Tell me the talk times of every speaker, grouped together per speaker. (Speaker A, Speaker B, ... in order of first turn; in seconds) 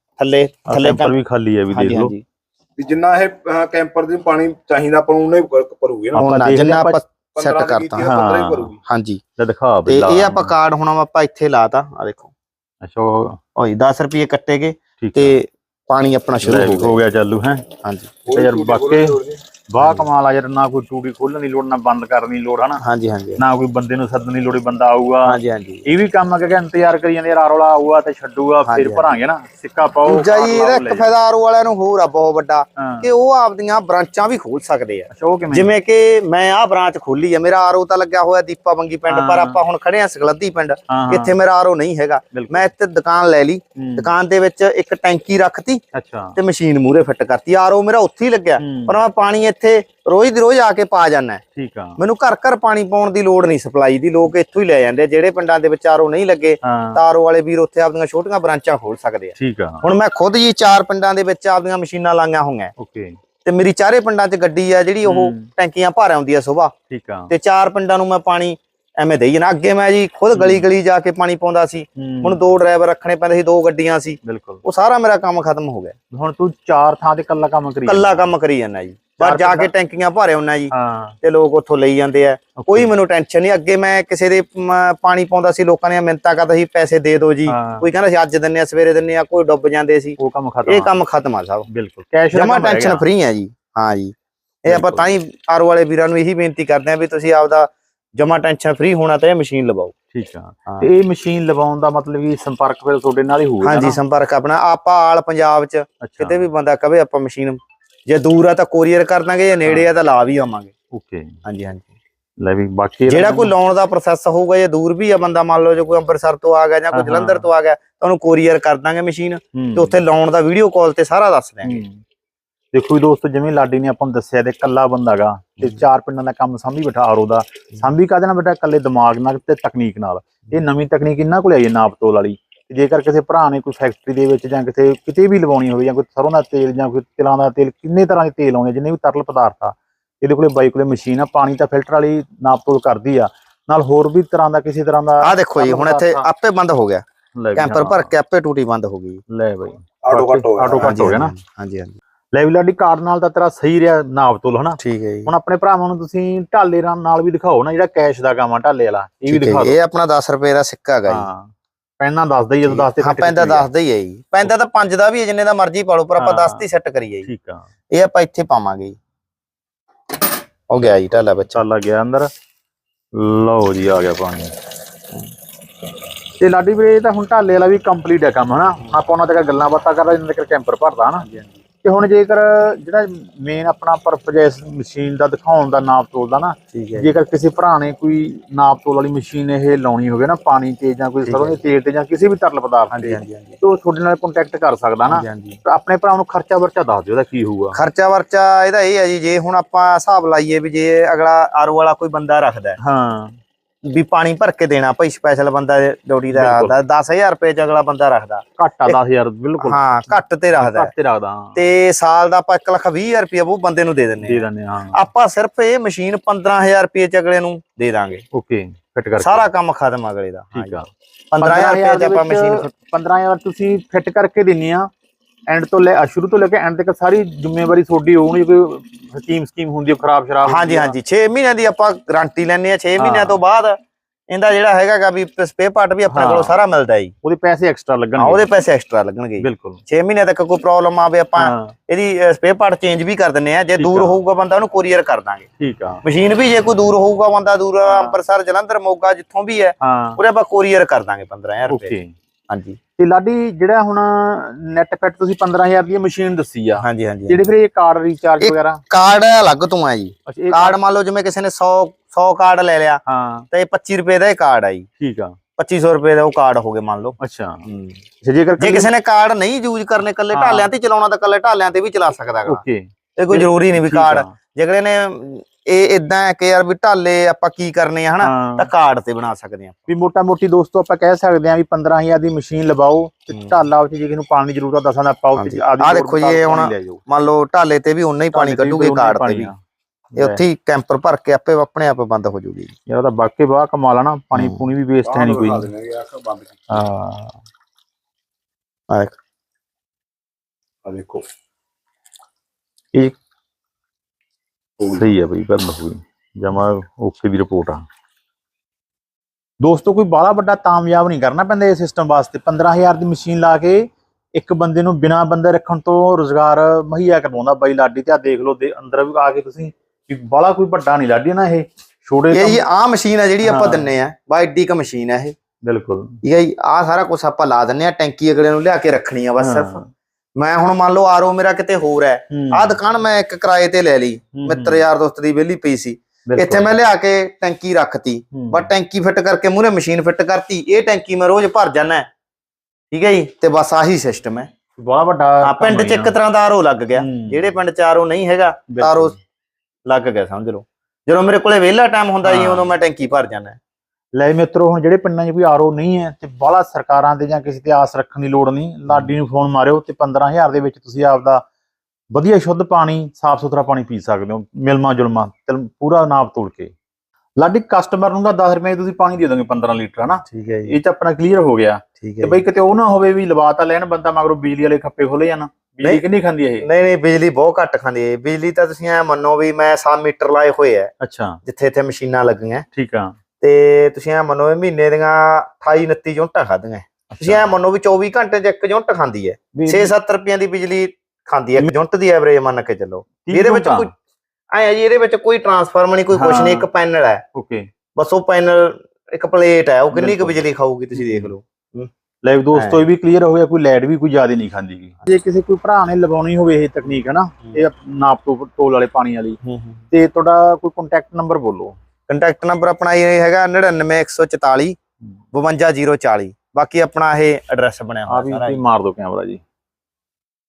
Speaker A: 0.2-1.1, 1.7-2.2, 6.2-8.1, 8.8-9.2, 9.9-12.3, 13.6-17.0, 17.8-18.2, 19.8-20.1, 22.8-23.4, 25.2-25.9, 28.6-29.2, 30.1-45.8, 46.4-51.4, 52.0-62.7, 63.4-66.7, 67.3-75.9, 77.9-80.7, 81.2-91.7, 92.3-99.9, 103.6-110.7, 111.4-111.9, 113.1-121.8, 145.2-147.0, 147.6-149.2, 150.8-151.9, 154.8-155.3, 159.3-161.3, 162.6-167.3, 167.9-169.0, 170.7-171.6, 181.2-181.6, 186.7-187.2, 191.2-191.6, 192.9-193.6, 195.1-195.6, 197.7-202.8, 203.9-209.0, 209.6-210.9, 211.6-218.2, 219.2-220.8, 221.3-222.7, 230.5-233.8, 234.3-237.1, 238.2-245.5, 246.0-251.9, 252.5-252.8, 256.8-257.4, 258.4-264.9, 265.6-268.0, 268.6-272.6, 273.2-279.9, 283.3-283.6, 285.4-289.5, 290.2-292.7, 294.3-294.6, 298.9-299.2, 322.3-325.3, 326.2-329.8, 330.4-342.1, 342.9-344.5, 345.4-349.1, 349.9-353.6, 358.9-359.1, 370.3-370.8, 372.0-372.4, 376.6-380.9, 381.4-382.6, 383.4-393.9, 394.5-397.2, 397.9-401.9, 402.5-402.8, 409.4-409.8, 412.1-414.8, 415.3-418.6
Speaker B: 0.7-2.1, 6.1-7.0, 8.0-8.8, 9.4-10.6, 12.8-13.4, 15.0-15.4, 16.4-17.7, 18.3-19.2, 19.7-22.8, 23.4-31.1, 32.8-33.1, 35.1-35.7, 39.1-39.6, 40.9-41.3, 42.3-42.7, 43.8-44.1, 45.9-46.4, 48.6-49.0, 51.5-52.0, 56.6-57.0, 59.4-59.9, 62.8-63.2, 65.0-65.5, 66.9-67.3, 70.3-70.7, 72.0-72.4, 74.2-74.6, 76.1-78.3, 79.2-79.7, 80.7-81.1, 82.6-82.9, 87.5-87.9, 90.2-90.9, 91.7-93.0, 94.7-95.1, 100.1-104.0, 106.0-106.5, 110.9-111.3, 112.4-113.5, 116.9-117.5, 119.5-120.0, 121.6-122.0, 122.7-146.3, 147.4-148.1, 149.3-151.3, 152.3-159.8, 161.1-163.7, 166.2-166.6, 167.2-167.7, 171.5-172.3, 173.1-174.5, 176.4-181.2, 181.8-197.8, 202.8-203.4, 206.3-206.8, 208.6-211.6, 214.2-215.0, 218.3-219.5, 220.5-220.9, 221.4-224.9, 225.5-230.9, 233.0-233.4, 236.1-236.6, 237.2-238.5, 239.4-239.8, 241.4-241.7, 243.8-244.2, 245.6-246.0, 247.8-248.2, 249.8-250.2, 251.7-252.1, 253.0-258.8, 260.3-260.8, 263.1-263.4, 265.0-265.3, 267.2-267.6, 268.2-268.9, 270.3-270.7, 272.5-274.3, 278.2-278.7, 279.9-287.0, 288.3-289.6, 290.1-290.4, 292.9-295.7, 296.7-297.3, 304.8-307.8, 309.6-322.6, 323.4-323.9, 325.6-326.1, 329.4-329.9, 332.3-332.8, 334.3-334.8, 336.3-336.7, 338.3-338.7, 344.8-346.1, 346.9-347.5, 348.7-349.2, 352.2-352.7, 354.2-361.4, 362.1-366.7, 367.4-376.7, 381.0-381.4, 382.7-383.1, 387.1-387.5, 389.6-389.9, 393.2-393.9, 396.1-396.7, 397.3-397.7, 399.9-400.4, 400.9-401.3, 402.2-409.4, 409.9-411.7, 418.1-419.4
Speaker C: 2.8-6.3, 7.3-8.8, 18.2-19.4, 150.0-151.0, 295.0-296.8, 300.8-301.2, 304.8-305.1